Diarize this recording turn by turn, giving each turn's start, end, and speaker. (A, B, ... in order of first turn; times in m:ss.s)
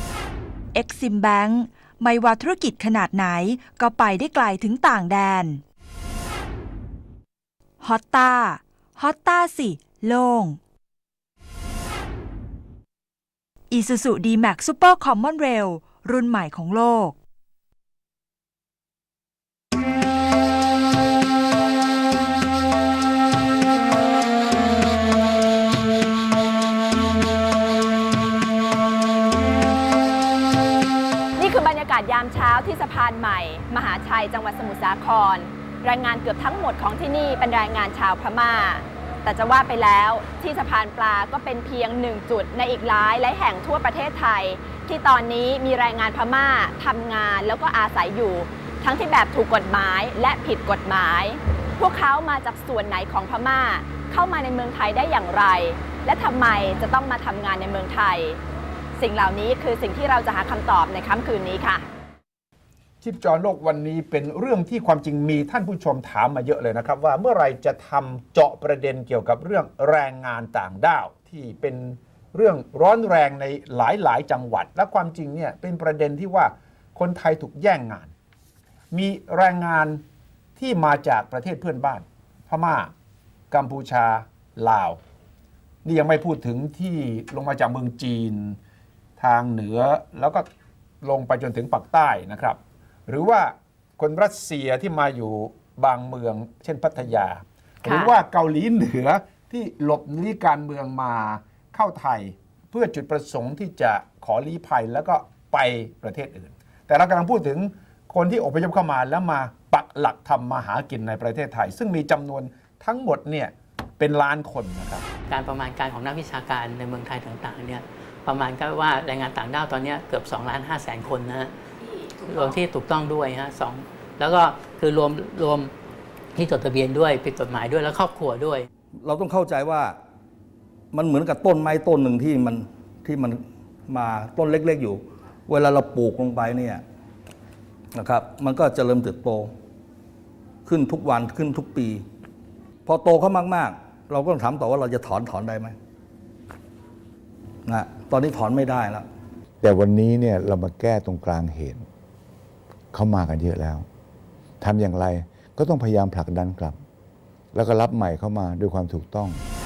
0:00.7-0:05.6 A
0:07.8-0:10.6 A
0:13.7-0:17.2 A
0:31.4-0:58.4 B
0:59.0-1:01.9 B
1:03.0-1:18.1 C
1:18.9-1:20.0 C
1:20.6-1:22.9 C
1:23.5-1:25.0 C
1:25.8-1:28.6 C
1:29.2-1:30.4 C
1:31.0-1:55.0 C
1:37.8-1:38.2 B
1:55.3-2:01.5 D
2:02.2-2:05.7 D
2:06.4-2:08.7 D
2:09.0-2:10.0 E
2:10.9-2:16.8 E
2:18.0-2:19.5 E
2:20.6-2:22.0 E
2:22.8-2:25.8 E
2:27.6-2:29.0 E
2:29.6-2:31.8 F
2:32.9-2:33.8 F
2:34.6-2:36.8 F
2:37.5-2:39.4 F